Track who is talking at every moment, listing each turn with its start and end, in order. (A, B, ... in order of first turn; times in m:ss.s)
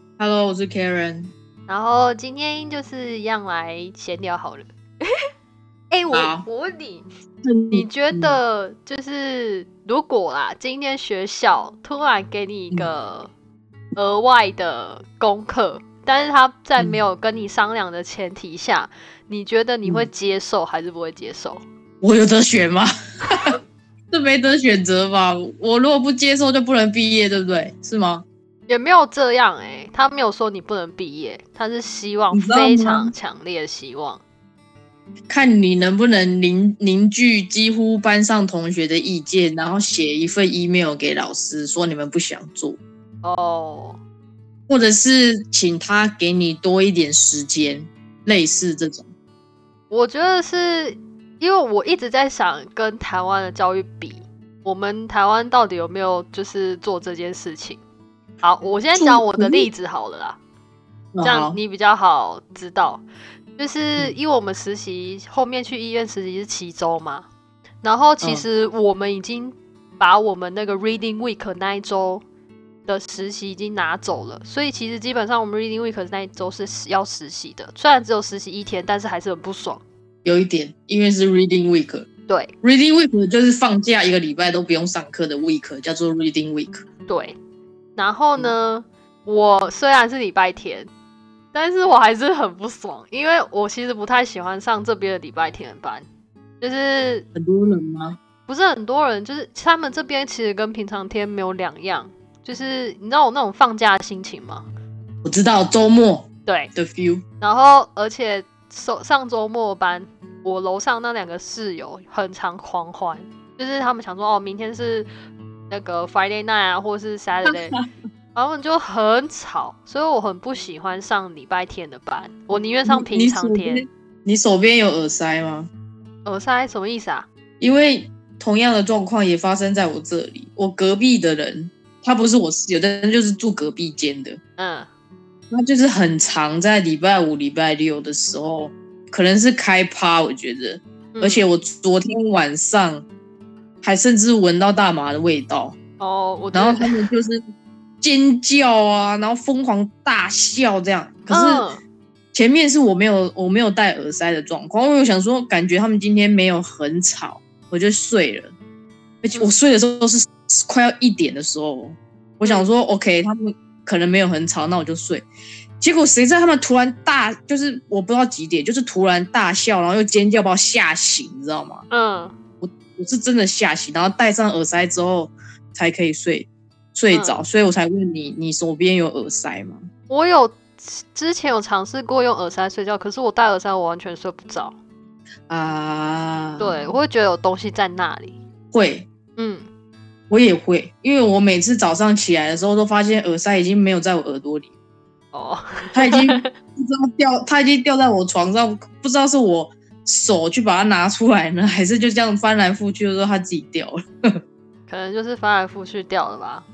0:00.2-0:01.3 A
0:01.7-0:04.7 B
0:05.9-0:07.1 B
0:06.1-0:06.5 A
0:07.4-0:08.4 A
0:07.7-0:13.3 B
0:14.0-0:21.6 B
0:16.8-0:17.0 A
0:19.8-0:20.1 A
0:22.0-0:23.6 A
0:24.1-0:28.2 A
0:28.7-0:34.2 B
0:32.3-0:33.1 A
0:35.3-0:42.8 A
0:43.2-0:44.0 B
0:44.7-0:49.1 A
0:49.9-0:57.8 B
0:58.4-1:00.4 B
0:58.9-0:59.7 A
1:01.1-1:01.6 A
1:01.2-1:03.0 B
1:03.6-1:07.3 B
1:07.8-1:12.2 B
1:08.2-1:08.5 A
1:12.9-1:19.8 B
1:20.2-1:22.1 A
1:22.3-1:22.5 B
1:22.6-1:26.8 A
1:27.1-1:27.4 B
1:28.0-1:30.9 B
1:31.5-1:36.1 B
1:36.6-1:37.3 B
1:37.4-1:38.2 A
1:38.5-1:44.7 B
1:45.2-1:47.2 A
1:46.5-1:46.7 B
1:47.4-1:55.1 B
1:55.7-1:57.8 B
1:57.5-1:57.8 A
1:58.4-2:03.9 B
2:02.8-2:05.7 A
2:06.2-2:07.3 B
2:07.6-2:14.4 A
2:14.6-2:14.9 B
2:15.5-2:23.1 A
2:21.2-2:21.4 B
2:23.8-2:25.8 A
2:26.0-2:27.1 B
2:26.5-2:27.4 A
2:28.0-2:31.6 A
2:31.3-2:31.8 B
2:32.3-2:38.5 A
2:39.2-2:45.3 A
2:45.8-2:51.8 A
2:51.9-2:52.3 B
2:52.6-2:59.9 A
2:57.1-2:57.4 B
3:00.1-3:04.8 B
3:05.5-3:06.9 A
3:06.6-3:08.4 B
3:08.7-3:09.1 A
3:09.4-3:09.7 B
3:10.3-3:14.7 A
3:15.3-3:16.5 B
3:15.9-3:24.0 A
3:24.9-3:26.7 B